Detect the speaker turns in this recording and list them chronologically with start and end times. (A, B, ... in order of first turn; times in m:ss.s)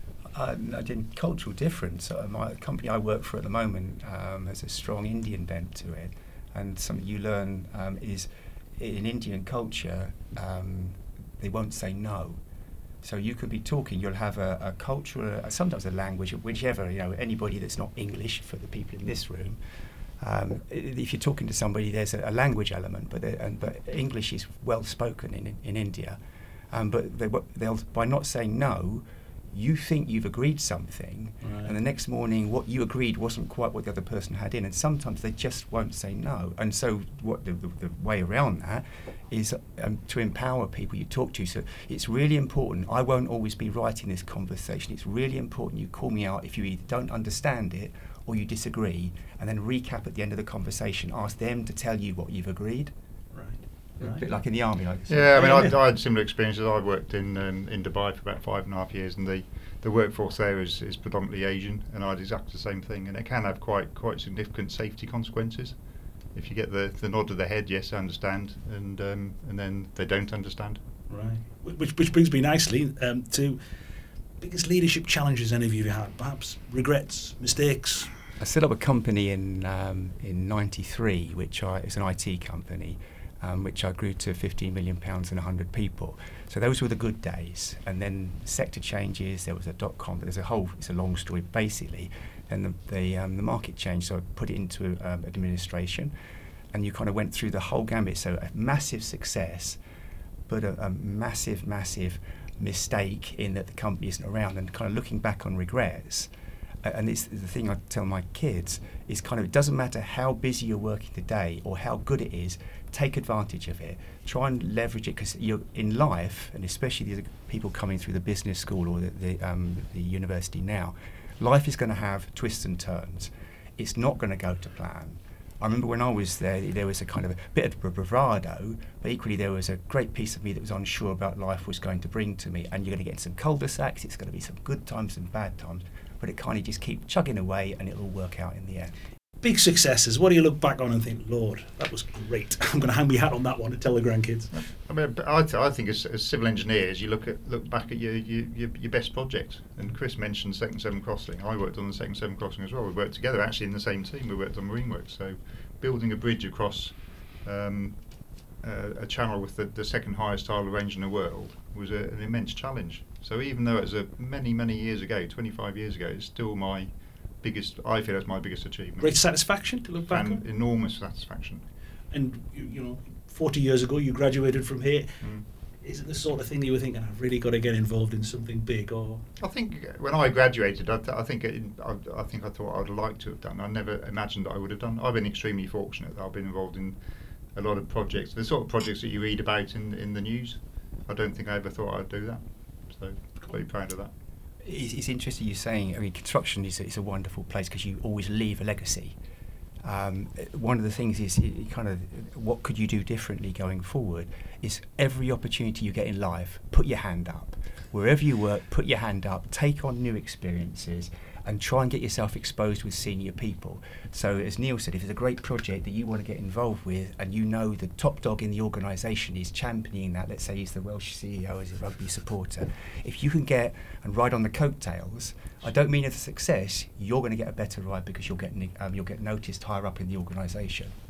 0:00.3-0:12.4 A
0:13.0-0:19.6 A
0:20.2-0:26.2 A
0:26.7-0:52.9 A
0:31.4-0:31.7 B
0:53.3-0:54.2 B
0:54.0-0:55.7 A
0:55.1-1:05.8 C
0:55.4-0:55.7 B
1:06.3-1:10.8 C
1:11.1-1:13.6 B
1:14.4-1:18.1 B
1:18.4-1:36.1 A
1:36.7-1:39.8 A
1:40.5-1:46.3 A
1:46.8-2:19.0 A
2:19.4-2:24.5 B
2:24.5-2:38.0 C
2:38.6-2:49.2 C
2:49.0-2:50.4 B
2:50.1-2:51.6 C
2:52.1-2:55.1 B
2:55.8-2:59.2 B
2:59.4-3:07.0 C
3:07.6-3:14.1 C
3:14.6-3:19.2 A
3:19.8-3:50.9 A